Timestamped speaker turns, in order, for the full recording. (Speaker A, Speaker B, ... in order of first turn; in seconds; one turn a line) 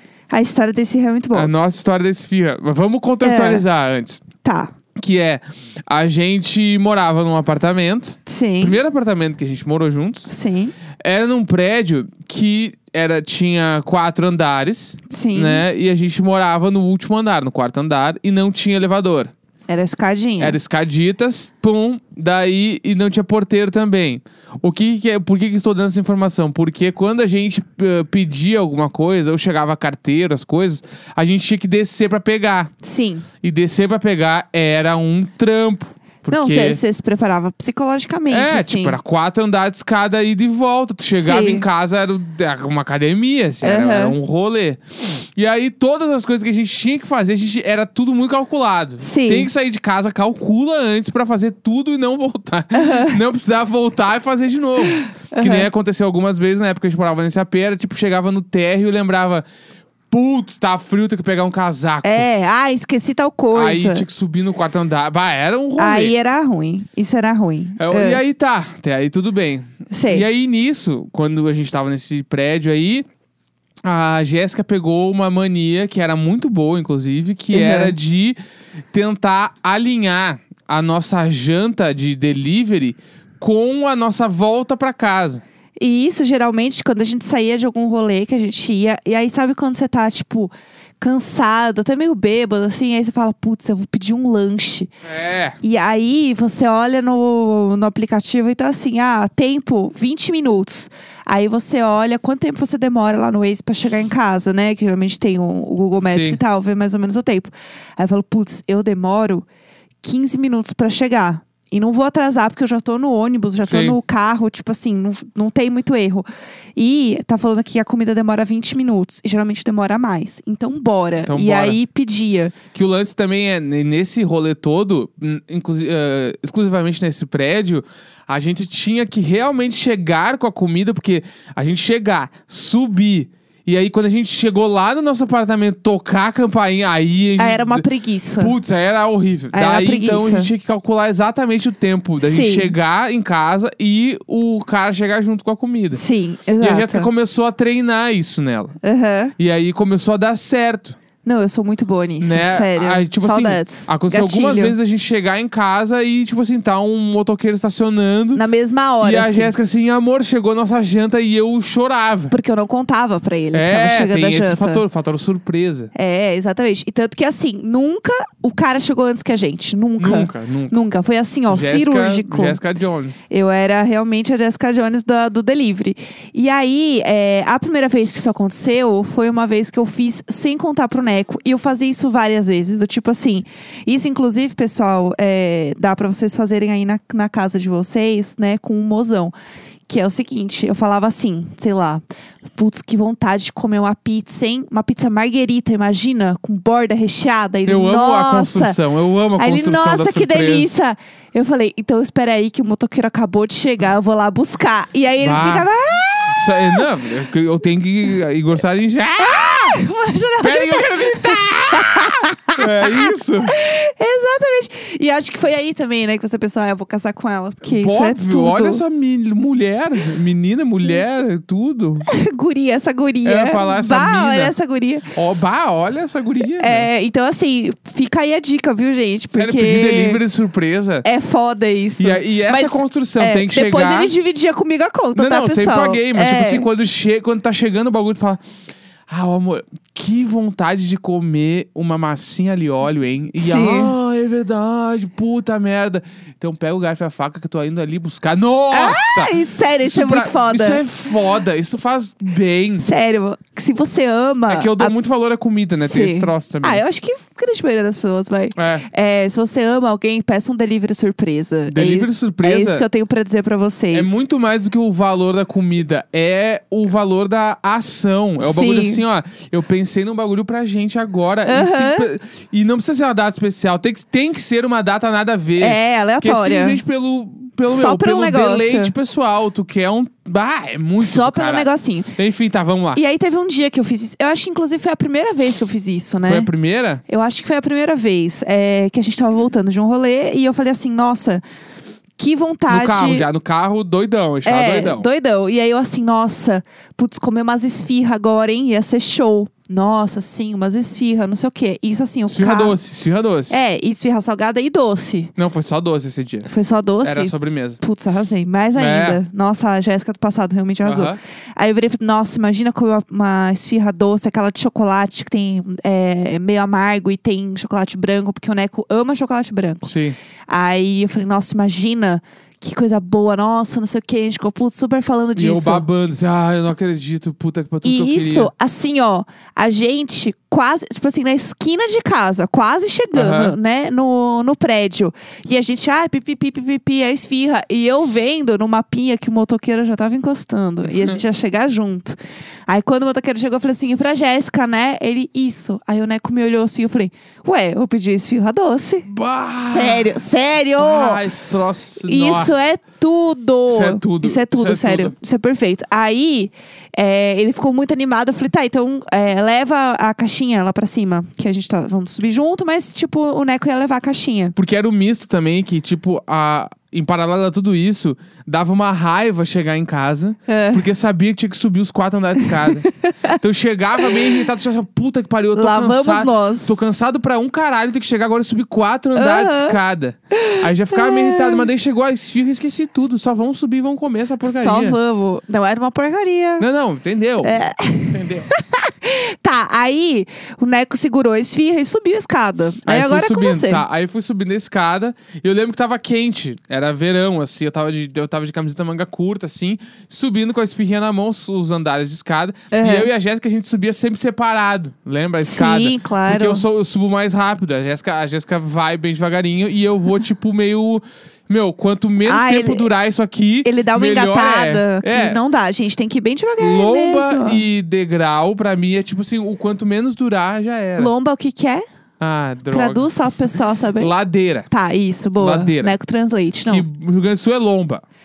Speaker A: 0.3-1.5
Speaker B: 1.3-4.2
Speaker A: 3.2-3.6
Speaker A: 4.4-4.7
Speaker B: 5.0-10.3
Speaker A: 8.2-8.8
Speaker A: 10.3-10.7
Speaker B: 11.0-19.3
Speaker A: 15.1-15.6
Speaker A: 19.7-20.6
Speaker B: 20.4-32.7
Speaker A: 32.8-33.2
Speaker B: 33.4-36.8
Speaker A: 36.3-39.0
Speaker B: 38.3-59.4
Speaker A: 41.1-41.6
Speaker A: 43.6-44.2
Speaker A: 49.0-49.5
Speaker A: 52.7-53.2
Speaker A: 54.9-55.7
Speaker B: 60.1-62.3
Speaker A: 62.0-64.0
Speaker B: 63.5-66.1
Speaker A: 65.8-68.2
Speaker B: 67.8-73.0
Speaker A: 69.9-70.3
Speaker B: 73.8-78.4
Speaker A: 77.5-77.9
Speaker B: 78.9-85.4
Speaker A: 85.8-94.9
Speaker B: 95.0-95.6
Speaker A: 95.6-109.5
Speaker B: 106.0-106.4
Speaker A: 110.0-122.5
Speaker B: 113.6-114.0
Speaker B: 121.3-121.8
Speaker B: 122.7-137.8
Speaker A: 137.4-138.5
Speaker B: 138.4-146.0
Speaker A: 139.5-140.5
Speaker A: 142.2-142.7
Speaker A: 145.9-147.1
Speaker B: 146.6-148.8
Speaker A: 148.8-149.3
Speaker B: 149.4-151.0
Speaker A: 151.2-154.8
Speaker B: 152.2-158.4
Speaker A: 158.3-159.5
Speaker B: 159.0-162.3
Speaker A: 162.3-164.8
Speaker B: 163.5-165.9
Speaker A: 165.9-172.6
Speaker B: 170.0-170.8
Speaker B: 171.5-173.2
Speaker A: 173.3-189.3
Speaker A: 189.9-192.0
Speaker A: 192.5-198.8
Speaker B: 197.7-200.7
Speaker A: 199.4-206.8
Speaker B: 205.2-205.7
Speaker B: 206.2-209.8
Speaker A: 209.2-218.8
Speaker B: 210.4-213.6
Speaker B: 217.6-222.1
Speaker A: 222.1-225.1
Speaker B: 223.2-224.6
Speaker B: 225.1-226.9
Speaker A: 226.6-230.2
Speaker B: 229.3-231.0
Speaker A: 231.0-236.7
Speaker B: 232.0-234.1
Speaker B: 235.1-238.4
Speaker B: 239.1-252.8
Speaker A: 243.4-243.9
Speaker A: 248.7-250.8
Speaker A: 252.8-254.9
Speaker B: 254.5-256.8
Speaker A: 255.8-264.2
Speaker B: 258.5-258.9
Speaker B: 261.7-262.8
Speaker B: 263.9-283.0
Speaker A: 268.4-269.0
Speaker A: 271.4-272.1
Speaker A: 275.6-276.8
Speaker A: 277.7-278.9
Speaker A: 281.0-282.1
Speaker A: 282.9-286.5
Speaker B: 286.2-287.0
Speaker A: 287.1-291.4
Speaker A: 292.2-293.3
Speaker B: 292.7-295.1
Speaker A: 294.4-302.8
Speaker B: 302.3-303.6
Speaker A: 303.5-305.3
Speaker B: 305.4-306.5
Speaker A: 306.4-319.9
Speaker B: 307.0-307.8
Speaker B: 308.7-309.2
Speaker B: 310.8-311.2
Speaker B: 319.8-320.1
Speaker A: 320.5-325.9
Speaker B: 325.4-328.5
Speaker A: 327.8-342.1
Speaker B: 333.1-333.5
Speaker A: 342.7-349.1
Speaker B: 349.0-350.1
Speaker A: 349.7-351.2
Speaker B: 350.8-352.6
Speaker A: 352.0-364.5
Speaker B: 353.7-355.1
Speaker B: 364.6-385.0
Speaker A: 370.5-370.8
Speaker A: 372.4-373.4
Speaker A: 374.0-374.4
Speaker A: 375.5-376.8
Speaker A: 379.1-379.8
Speaker A: 380.3-381.7
Speaker A: 384.4-386.7
Speaker B: 386.6-387.5
Speaker A: 387.4-393.8
Speaker B: 388.1-388.5
Speaker B: 392.9-415.4
Speaker A: 402.7-403.1
Speaker A: 405.4-406.6
Speaker A: 412.2-412.9
Speaker A: 413.6-417.6
Speaker B: 416.6-421.1
Speaker A: 421.0-421.8
Speaker B: 422.2-423.1
Speaker A: 422.7-424.1
Speaker B: 424.0-424.7
Speaker A: 424.7-426.9
Speaker B: 425.4-425.9
Speaker B: 426.6-428.0